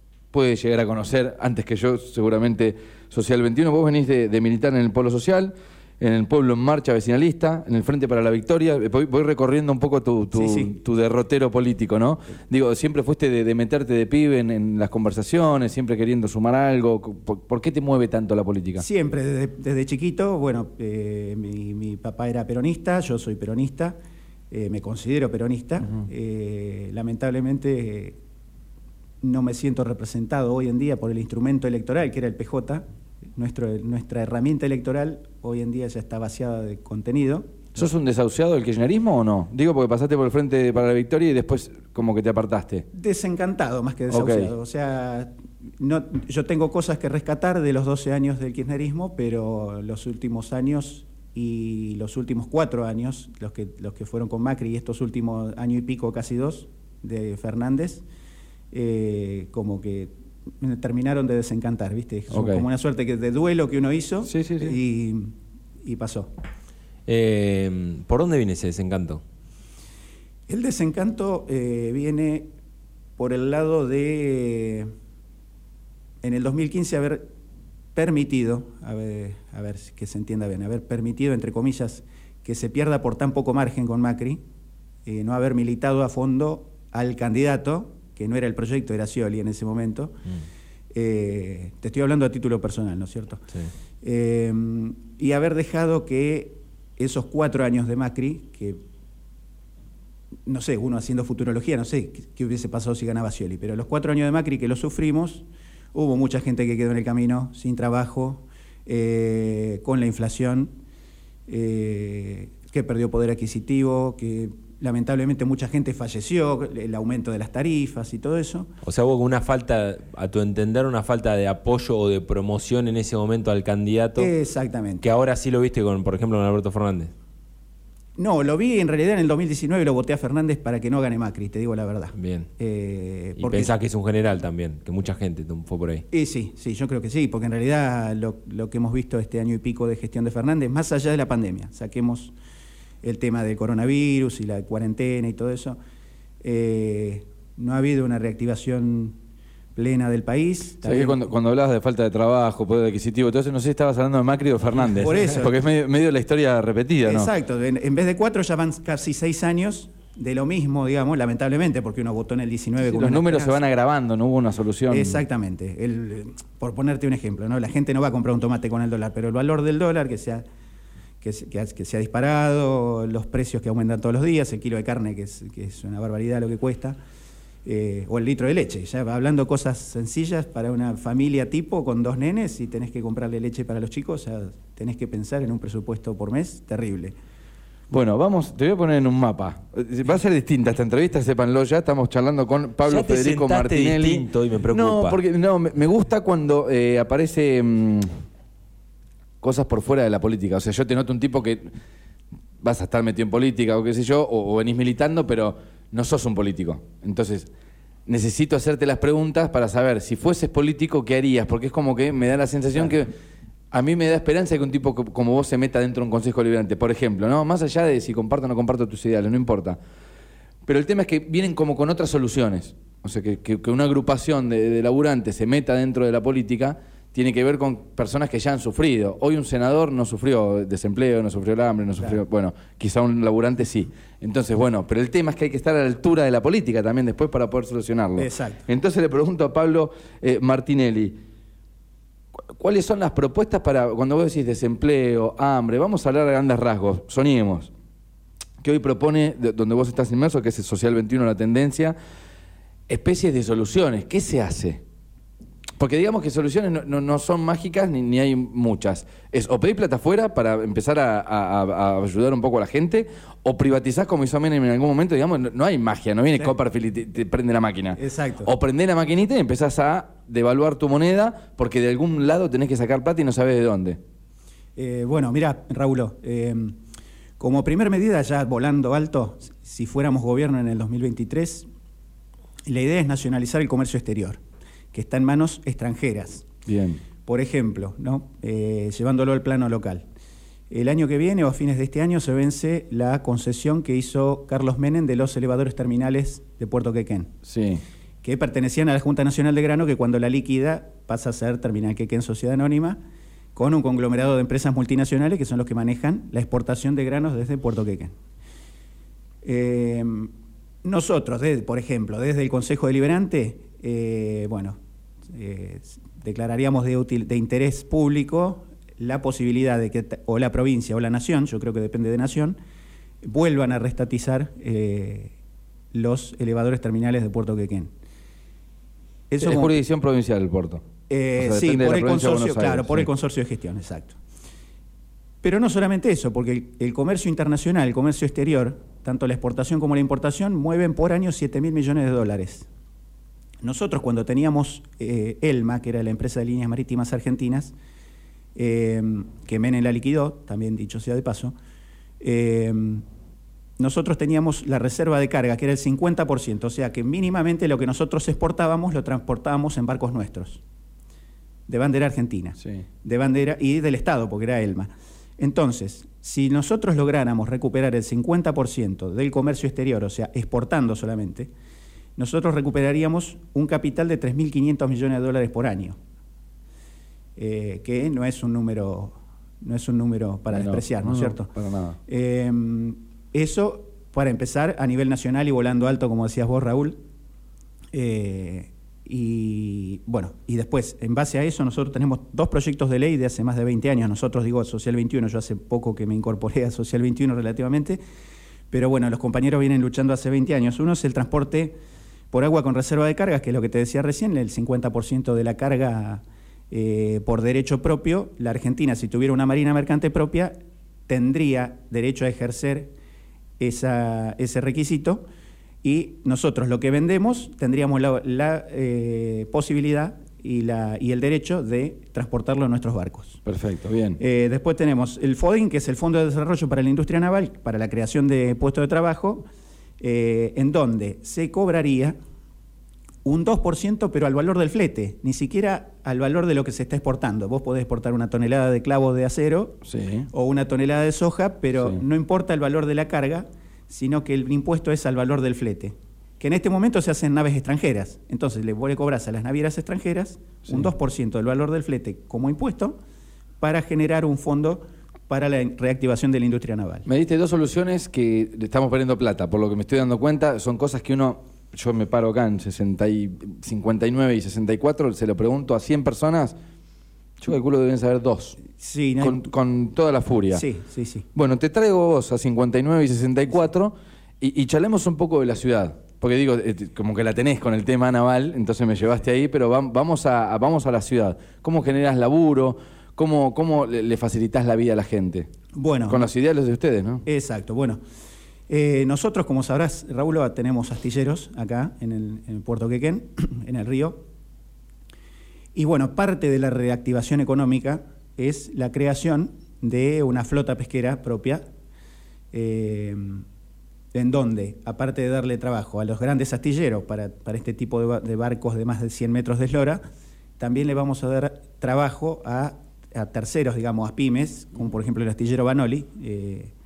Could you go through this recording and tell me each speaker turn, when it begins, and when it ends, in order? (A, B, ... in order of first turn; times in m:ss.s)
0:00.3-0:18.8 A
0:10.3-0:10.8 B
0:18.8-0:24.0 B
0:24.5-0:28.2 B
0:29.2-0:32.8 B
0:33.3-0:37.5 B
0:37.7-0:42.8 A
0:42.9-0:58.0 B
0:44.1-0:44.5 A
0:58.7-1:06.3 B
1:02.3-1:02.6 A
1:04.2-1:04.8 A
1:07.1-1:09.2 C
1:10.5-1:12.5 B
1:13.2-1:14.9 B
1:16.2-1:17.3 B
1:17.9-1:24.4 B
1:25.0-1:30.1 B
1:30.9-1:33.4 B
1:34.0-1:38.8 B
1:40.4-1:50.7 B
1:51.5-1:58.7 B
1:58.8-2:04.3 C
2:04.2-2:05.0 B
2:05.0-2:07.1 C
2:08.2-2:13.7 B
2:12.2-2:12.5 C
2:13.4-2:16.0 C
2:16.1-2:22.3 B
2:23.0-2:25.8 B
2:26.4-2:29.2 B
2:29.7-2:31.2 B
2:30.8-2:37.3 A
2:34.8-2:35.6 B
2:37.0-2:43.6 B
2:42.8-2:45.2 A
2:44.9-2:50.4 B
2:51.2-2:57.0 B
2:57.6-3:07.1 B
3:07.9-3:18.2 A
3:12.8-3:15.2 C
3:19.4-3:21.7 A
3:22.6-3:27.5 A
3:28.1-3:33.1 A
3:33.7-3:39.8 A
3:40.7-4:01.2 A
3:58.2-3:58.6 B
4:02.5-4:07.7 A
4:08.6-4:11.9 A
4:12.9-4:14.8 A
4:15.8-4:34.0 A
4:28.0-4:28.5 B
4:34.8-4:36.8 B
4:37.4-4:41.7 B
4:42.7-4:44.4 B
4:44.9-4:46.5 B
4:46.7-4:47.0 A
4:47.2-4:50.0 B
4:50.7-4:57.3 B
4:57.4-4:57.8 A
4:58.2-5:03.0 B
5:03.6-5:08.1 B
5:09.4-5:10.3 B
5:10.8-5:14.8 B
5:15.3-5:22.6 B
5:23.2-5:25.3 B
5:25.9-5:27.9 B
5:29.3-5:29.7 B
5:29.4-5:30.8 A
5:31.1-5:34.2 B
5:31.4-5:33.1 A
5:35.4-5:42.7 B
5:43.6-5:47.7 B
5:48.6-5:51.5 B
5:52.2-5:53.0 B
5:53.8-6:00.6 B
6:01.7-6:11.5 B
6:12.2-6:16.0 B
6:17.4-6:21.5 B
6:20.5-6:22.0 A
6:22.1-6:27.0 B
6:27.9-6:38.0 B
6:38.7-6:41.8 B
6:42.3-6:50.5 B
6:51.1-6:52.9 B
6:53.6-6:55.2 B
6:55.8-7:03.4 B
7:03.4-7:04.2 A
7:04.2-7:09.4 B
7:10.0-7:12.2 B
7:13.2-7:33.0 B
7:19.8-7:20.3 A
7:33.6-7:37.1 B
7:37.1-7:46.6 A
7:47.4-7:48.6 A
7:48.7-7:49.4 B
7:49.2-7:50.6 A
7:50.5-7:51.2 B
7:51.3-8:05.5 A
8:05.7-8:06.3 B
8:06.1-8:07.2 A
8:07.2-8:08.0 B
8:08.7-8:14.2 B
8:15.7-8:21.6 B
8:22.5-8:23.4 B
8:24.1-8:30.0 B
8:30.6-8:36.7 B